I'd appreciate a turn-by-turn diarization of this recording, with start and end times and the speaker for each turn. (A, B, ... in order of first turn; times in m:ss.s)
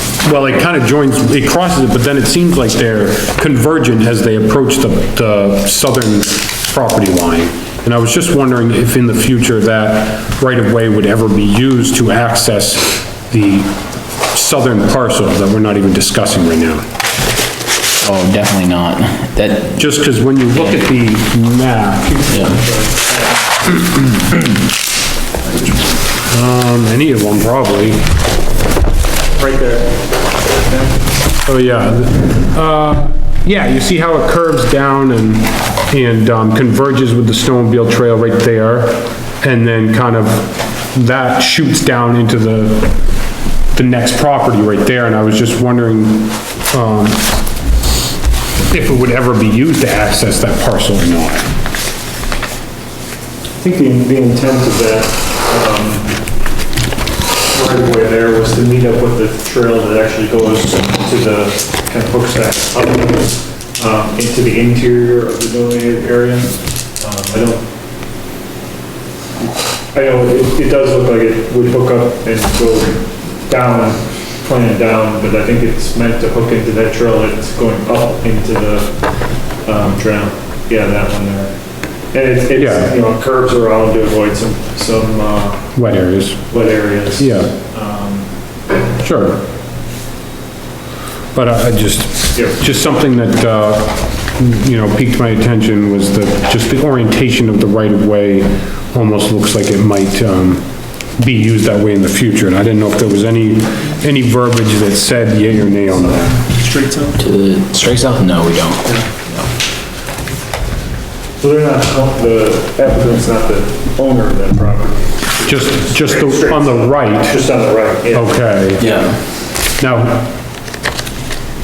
0:00.2-0:16.8 A
0:18.0-0:19.9 B
0:19.8-0:22.3 A
0:20.5-0:20.8 B
0:22.1-0:23.5 C
0:22.3-0:22.6 B
0:26.2-0:28.1 A
0:29.4-0:31.0 C
0:31.4-0:43.0 A
0:43.7-0:47.4 A
0:48.6-0:51.5 A
0:53.6-0:56.2 C
0:57.5-1:07.6 C
1:09.9-1:18.9 C
1:19.6-1:21.5 C
1:22.1-1:25.7 C
1:22.5-1:22.9 A
1:25.7-1:26.5 A
1:26.5-1:28.3 C
1:27.2-1:27.5 A
1:29.0-1:29.4 A
1:31.3-1:46.4 A
1:45.8-1:47.2 C
1:47.2-1:49.5 B
1:48.8-1:49.1 C
1:51.4-1:59.0 C
1:55.4-1:57.4 A
1:58.1-1:58.8 A
1:58.8-1:59.2 B
1:59.8-2:00.3 A